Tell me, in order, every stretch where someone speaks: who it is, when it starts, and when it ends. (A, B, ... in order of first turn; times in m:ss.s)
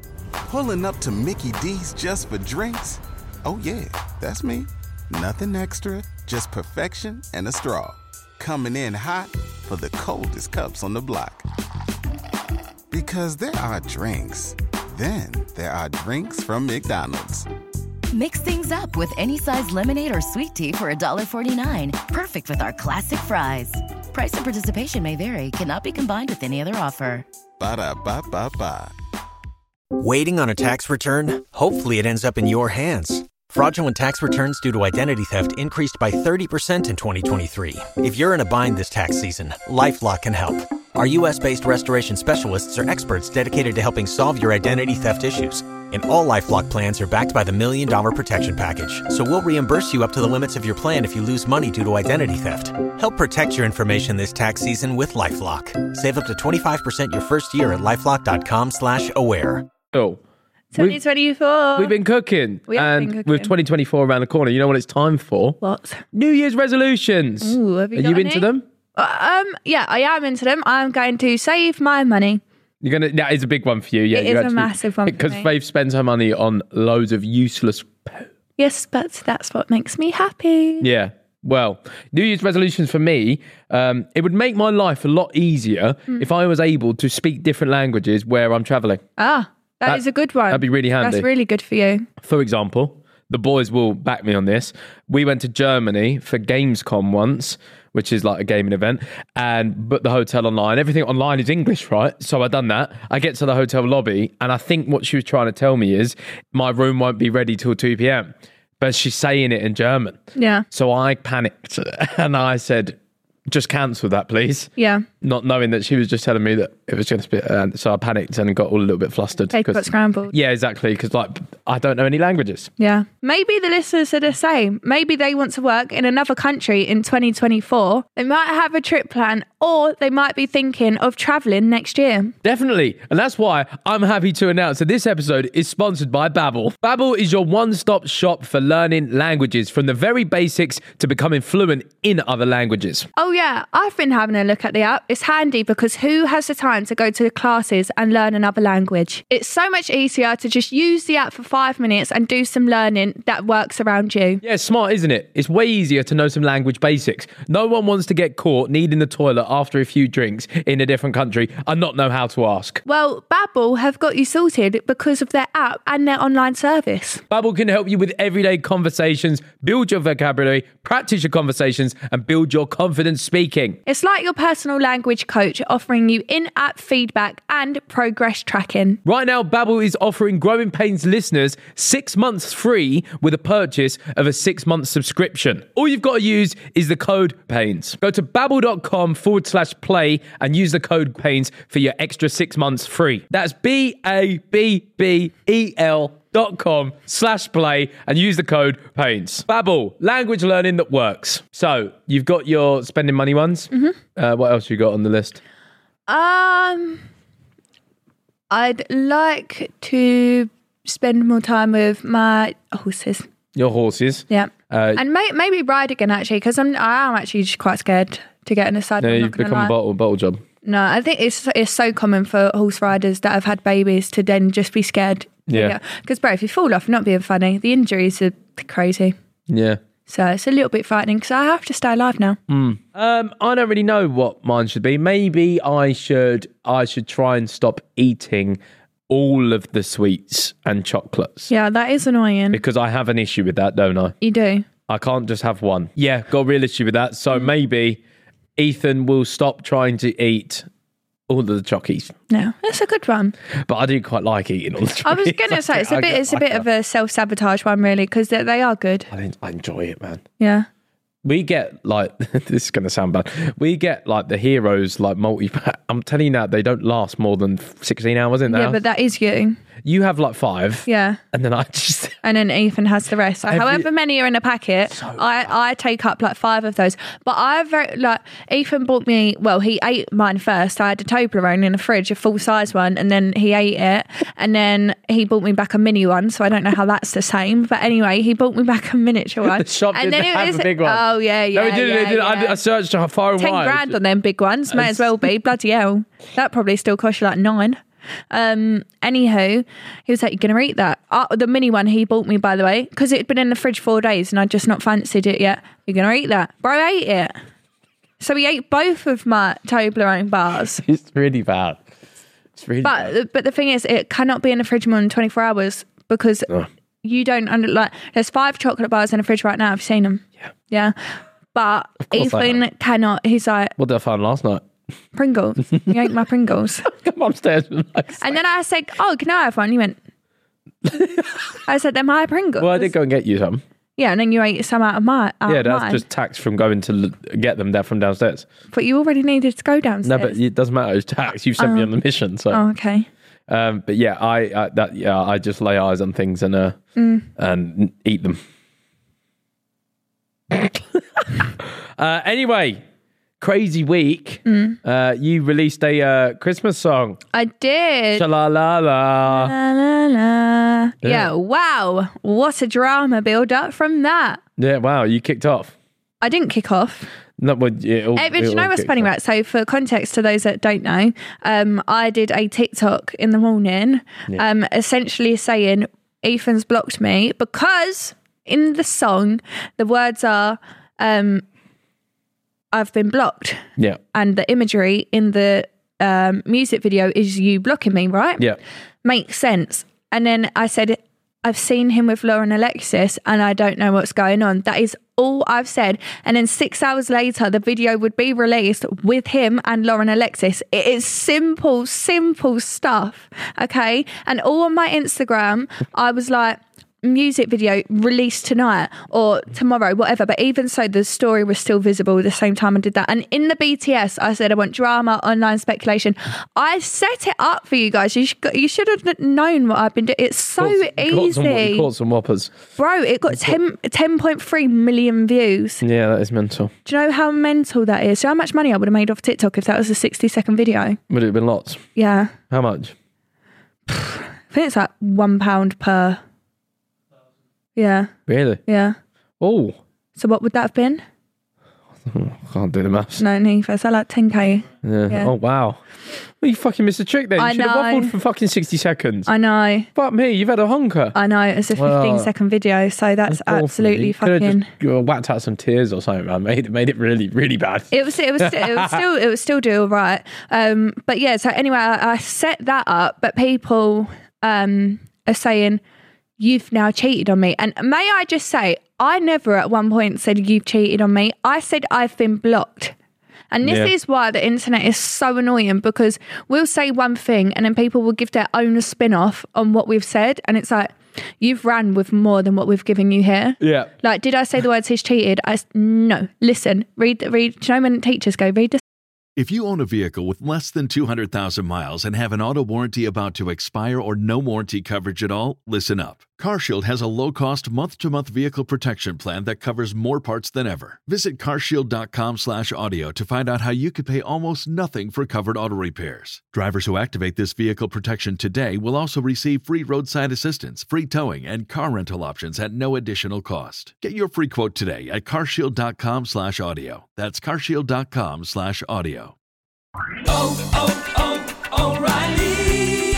0:00.5-0:11.4 A
0:12.9-0:17.5 A
0:18.1-0:27.2 B
0:27.6-0:28.9 A
0:30.0-0:59.7 C
0:59.9-1:00.2 D
1:00.7-1:01.9 E
1:01.8-1:05.6 D
1:02.7-1:03.5 E
1:05.6-1:06.0 E
1:06.1-1:08.6 D
1:07.4-1:12.4 E
1:12.8-1:18.3 D
1:14.1-1:15.5 E
1:18.6-1:20.9 E
1:20.8-1:29.0 D
1:29.2-1:32.1 E
1:29.8-1:31.2 D
1:32.2-1:50.2 D
1:50.3-1:50.6 E
1:50.7-1:53.0 D
1:53.5-2:02.7 D
1:54.8-1:55.0 E
1:59.5-2:00.3 E
2:02.8-2:12.3 E
2:12.4-2:23.1 D
2:23.2-2:34.4 E
2:34.4-2:42.8 D
2:42.8-2:47.2 E
2:47.3-2:53.8 D
2:53.8-2:59.0 E
2:59.0-3:25.4 D
3:23.7-3:24.0 E
3:26.1-3:27.0 E
3:28.5-3:33.2 E
3:33.5-3:35.0 D
3:34.3-3:39.7 E
3:39.0-3:40.4 D
3:40.6-3:49.1 E
3:45.5-3:45.8 D
3:49.5-3:49.8 D
3:50.1-3:52.4 E
3:52.5-4:01.5 D
4:01.5-4:02.6 E
4:02.5-4:04.1 D
4:04.2-4:04.6 E
4:04.9-4:08.0 D
4:08.6-4:10.7 D
4:11.3-4:12.1 D
4:12.3-4:13.3 E
4:13.6-4:16.6 D
4:15.0-4:19.1 E
4:19.1-4:20.2 D
4:20.4-4:20.7 E
4:21.2-4:28.8 D
4:28.5-4:29.6 E
4:29.8-4:32.1 D
4:30.9-4:31.2 E
4:32.2-4:52.6 E
4:33.5-4:33.9 D
4:34.9-4:35.4 D
4:49.4-4:54.0 D
4:53.4-5:07.3 E
4:54.7-4:55.2 D
5:08.2-5:10.8 E
5:10.8-5:11.8 D
5:12.6-5:13.1 D
5:12.8-5:16.5 E
5:17.0-5:20.9 E
5:21.5-5:23.7 E
5:22.0-5:22.6 D
5:23.8-5:24.6 D
5:25.1-5:26.9 E
5:25.8-5:26.1 D
5:26.8-5:28.4 D
5:28.2-5:30.0 E
5:30.8-5:31.4 D
5:31.6-5:32.9 E
5:32.6-5:33.6 D
5:34.0-5:36.0 E
5:35.5-5:38.5 D
5:38.7-5:40.4 E
5:40.0-5:42.6 D
5:41.6-5:41.9 E
5:42.5-5:43.1 E
5:43.5-5:46.8 D
5:47.0-5:47.3 E
5:47.4-5:48.4 D
5:50.5-5:52.8 D
5:53.4-5:57.2 D
5:54.4-5:54.8 E
5:57.3-5:58.2 E
5:58.1-5:59.5 D
5:59.3-6:04.4 E
6:01.0-6:01.3 D
6:04.6-6:05.7 D
6:06.2-6:07.1 E
6:07.4-6:09.1 D
6:08.1-6:21.4 E
6:22.7-6:28.4 E
6:29.0-7:01.9 E
7:00.6-7:02.5 D
7:02.8-7:05.8 E
7:03.3-7:03.6 D
7:05.8-7:06.7 D
7:06.8-7:11.0 E
7:11.1-7:11.8 D
7:12.0-7:12.3 E
7:12.5-7:12.9 D
7:13.9-7:16.2 E
7:17.8-7:18.1 E
7:18.3-7:18.6 D
7:18.7-7:19.0 E
7:19.4-7:19.8 D
7:20.2-7:21.0 E
7:22.0-7:23.2 D
7:23.2-7:25.3 E
7:24.8-7:25.8 D
7:26.4-7:29.3 D
7:27.4-7:28.1 E
7:29.3-7:29.9 E
7:29.9-7:31.2 D
7:31.1-7:34.7 E
7:31.8-7:32.3 D
7:33.3-7:39.0 D
7:37.9-7:45.8 E
7:46.4-7:52.9 E
7:53.5-8:08.8 E
7:53.6-7:53.9 D
8:03.6-8:03.9 D
8:09.4-8:39.4 F
8:40.4-8:41.1 F
8:41.8-8:42.6 F